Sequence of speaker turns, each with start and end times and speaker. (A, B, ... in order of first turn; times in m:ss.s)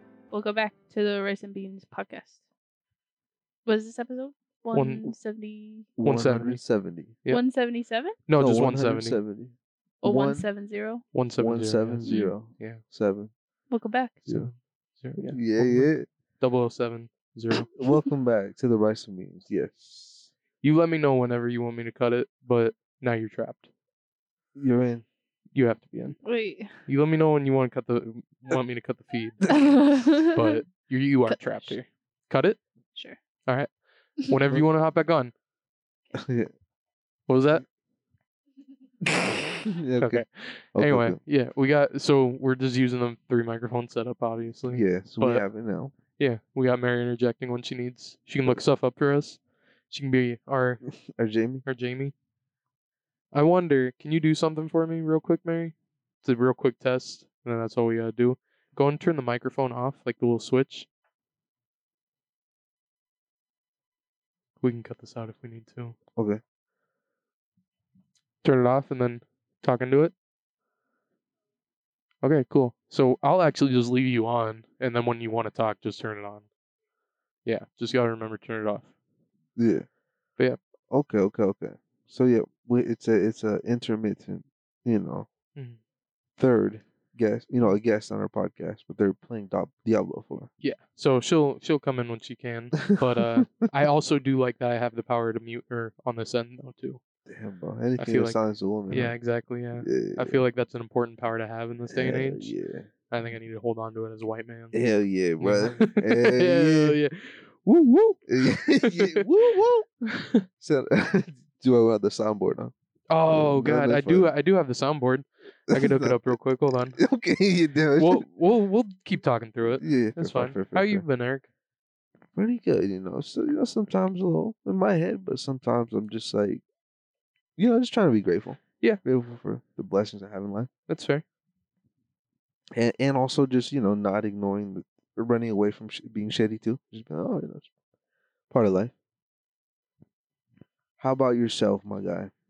0:00.3-0:02.4 A
0:03.6-0:05.9 A
0:04.7-0:05.1 B
0:06.0-0:07.2 C
0:06.0-0:06.6 B
0:07.3-0:08.2 A
0:08.3-0:09.2 B
0:08.4-0:10.4 C
0:10.0-0:11.0 A
0:11.1-0:12.8 B
0:11.4-0:13.3 C
0:12.0-0:12.3 A
0:13.7-0:14.2 A
0:14.2-0:17.7 B
0:15.2-0:16.1 C
0:17.8-0:20.3 C
0:20.6-0:23.7 B
0:24.5-0:25.0 C
0:25.5-0:26.2 B
0:26.2-0:26.8 A
0:26.8-0:29.6 B
0:29.5-0:30.6 A
0:30.3-0:32.6 B
0:31.3-0:31.7 A
0:34.2-0:35.3 B
0:36.1-0:36.5 C
0:37.3-0:37.6 B
0:39.2-0:41.2 C
0:40.0-0:45.4 B
0:44.7-0:45.9 C
0:46.2-0:50.8 B
0:50.9-0:51.6 C
0:51.6-0:52.1 B
0:53.3-1:00.9 B
1:04.6-1:06.0 B
1:06.2-1:06.4 C
1:08.4-1:10.1 B
1:12.2-1:16.4 B
1:17.4-1:18.9 B
1:19.6-1:19.8 C
1:20.9-1:25.3 C
1:26.4-1:30.5 C
1:30.6-1:37.0 B
1:32.8-1:33.7 C
1:37.2-1:39.1 C
1:38.0-1:42.5 B
1:39.8-1:40.4 C
1:41.9-1:42.9 C
1:43.1-1:44.8 B
1:44.7-1:47.0 C
1:45.4-1:48.2 B
1:48.2-1:49.9 C
1:48.8-1:49.3 B
1:50.1-1:50.4 B
1:50.6-1:52.7 C
1:53.1-1:57.0 B
1:53.2-1:54.3 C
1:55.7-1:56.4 C
1:57.0-1:58.3 C
1:58.0-2:01.4 B
1:59.8-2:01.0 C
2:02.3-2:06.6 C
2:07.6-2:10.7 C
2:10.9-2:11.2 B
2:12.7-2:17.7 C
2:18.5-2:18.9 C
2:21.0-2:22.3 C